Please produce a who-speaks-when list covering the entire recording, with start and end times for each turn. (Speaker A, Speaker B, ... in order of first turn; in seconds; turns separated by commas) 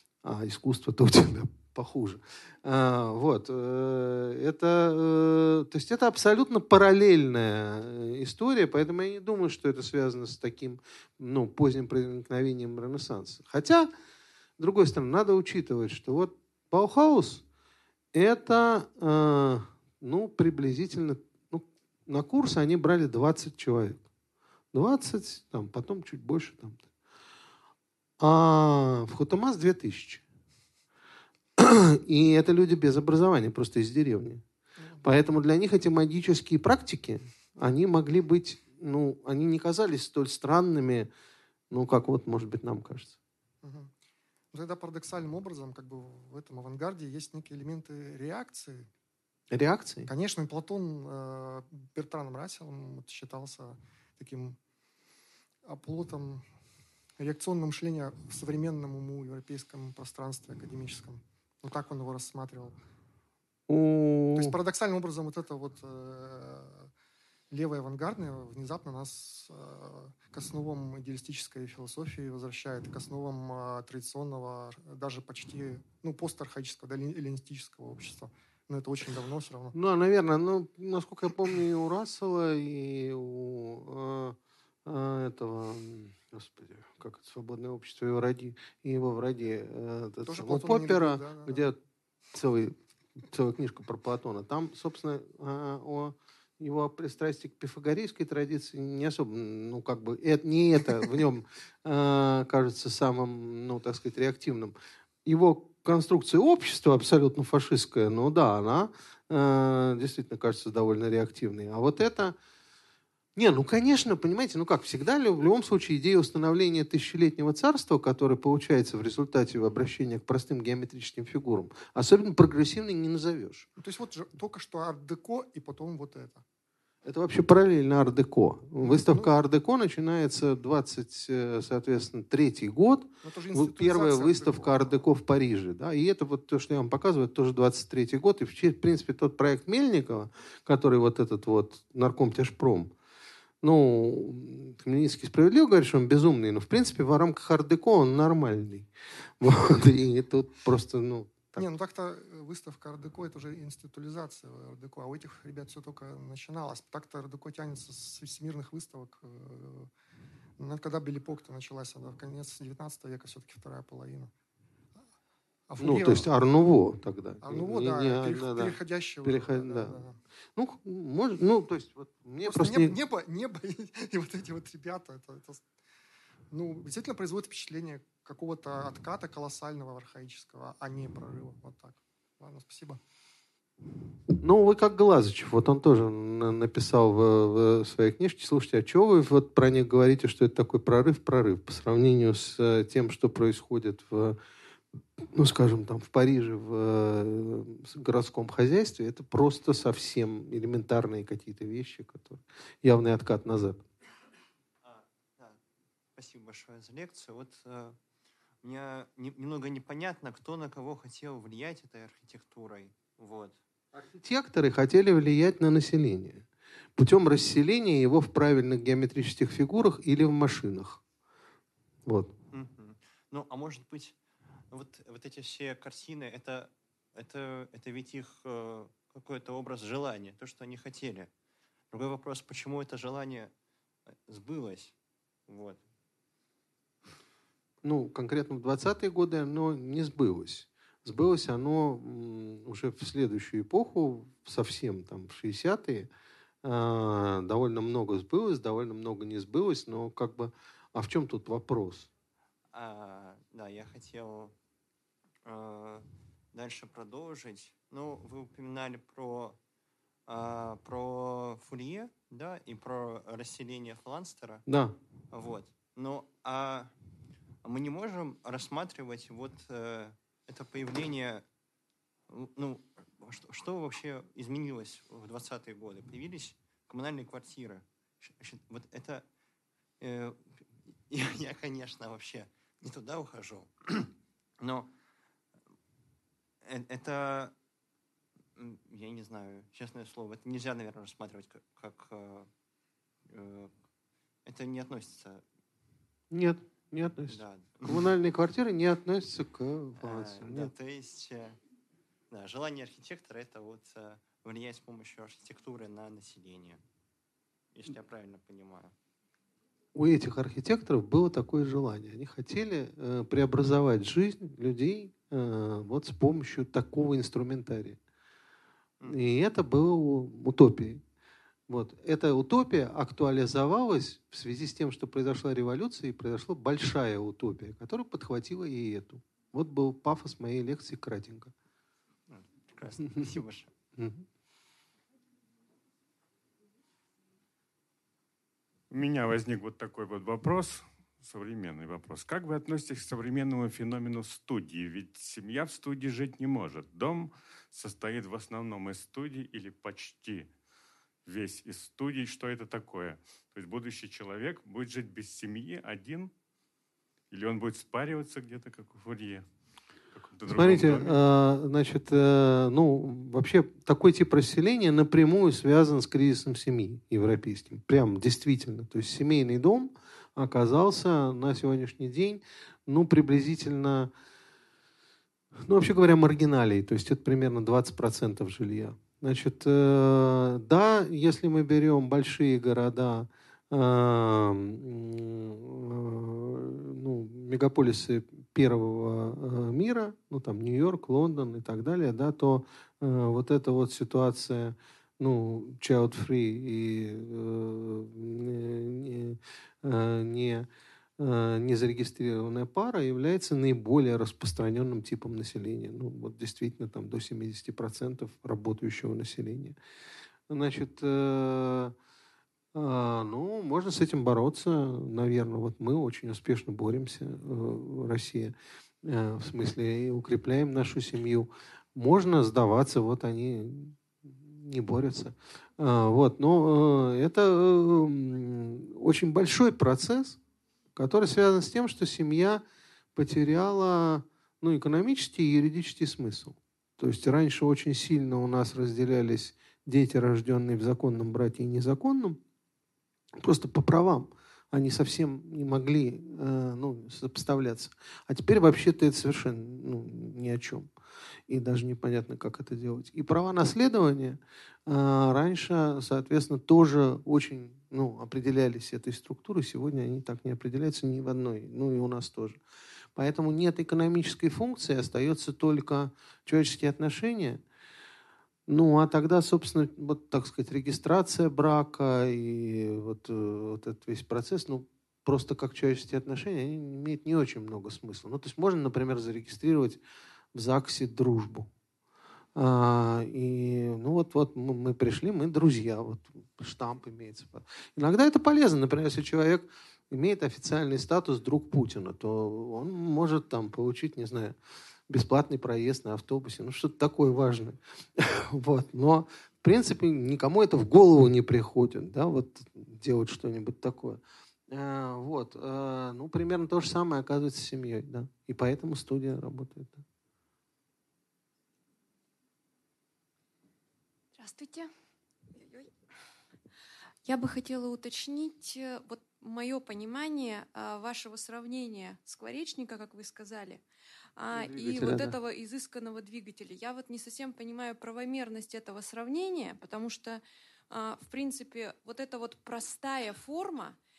Speaker A: 0.2-13.9, Speaker A: 14.6-17.4, Speaker A: 18.1-24.0, Speaker A: 24.7-26.8, Speaker A: 28.2-30.2, Speaker A: 31.6-34.4, Speaker A: 35.0-41.1, Speaker A: 41.7-43.2, Speaker B: 43.6-43.9, Speaker B: 44.5-48.9, Speaker A: 49.5-50.1, Speaker B: 50.1-54.6, Speaker B: 55.6-56.5, Speaker B: 57.2-62.8, Speaker A: 63.7-64.6, Speaker B: 64.4-66.9, Speaker B: 67.5-79.8, Speaker A: 79.7-91.8, Speaker B: 90.3-91.7, Speaker A: 92.3-112.4, Speaker A: 113.4-123.7, Speaker B: 123.8-126.4, Speaker A: 127.0-142.9, Speaker B: 128.8-129.3, Speaker B: 133.2-135.0, Speaker A: 143.6-148.9, Speaker A: 149.4-151.7, Speaker B: 151.6-159.9, Speaker B: 160.6-164.3, Speaker B: 165.7-166.3, Speaker A: 165.8-169.9, Speaker B: 167.4-170.2, Speaker A: 170.6-173.0, Speaker B: 172.4-175.7, Speaker B: 176.5-183.0, Speaker A: 184.4-194.4, Speaker A: 195.3-203.8, Speaker C: 204.8-205.6, Speaker C: 206.2-208.0, Speaker C: 208.6-213.6, Speaker A: 214.0-216.5, Speaker A: 217.0-221.0, Speaker A: 222.1-222.3, Speaker C: 222.5-224.2, Speaker C: 224.7-231.3, Speaker C: 231.9-233.5, Speaker C: 234.1-234.9, Speaker C: 235.5-235.8, Speaker A: 237.8-246.1, Speaker A: 246.6-252.1, Speaker C: 252.7-254.6, Speaker C: 255.4-259.6, Speaker C: 260.3-264.7, Speaker A: 264.7-265.0, Speaker C: 265.3-266.9, Speaker C: 267.6-271.4, Speaker C: 272.3-279.3, Speaker C: 280.0-284.9, Speaker C: 286.6-287.6, Speaker C: 288.6-292.5, Speaker C: 293.3-293.7, Speaker C: 294.4-295.4, Speaker A: 296.3-300.7, Speaker C: 297.3-298.1, Speaker C: 300.0-301.6, Speaker C: 302.3-306.8, Speaker C: 307.8-308.9, Speaker A: 309.9-318.0, Speaker A: 319.1-321.0, Speaker A: 321.7-331.5, Speaker C: 332.3-333.7, Speaker A: 334.0-334.2, Speaker D: 338.9-350.5, Speaker D: 351.2-356.3, Speaker D: 357.3-359.5, Speaker D: 360.1-361.2, Speaker A: 360.5-374.1, Speaker A: 375.7-400.7, Speaker A: 401.2-409.8, Speaker A: 410.5-411.9, Speaker A: 412.7-430.4, Speaker A: 431.0-432.6, Speaker A: 433.1-442.4, Speaker A: 443.4-450.9, Speaker A: 451.5-462.6, Speaker A: 463.2-467.6, Speaker A: 468.7-480.0, Speaker A: 480.5-481.7, Speaker A: 482.6-494.6, Speaker A: 495.1-510.0, Speaker E: 514.4-514.9, Speaker E: 515.5-515.9, Speaker E: 517.2-523.8, Speaker E: 524.4-534.0, Speaker A: 524.5-525.4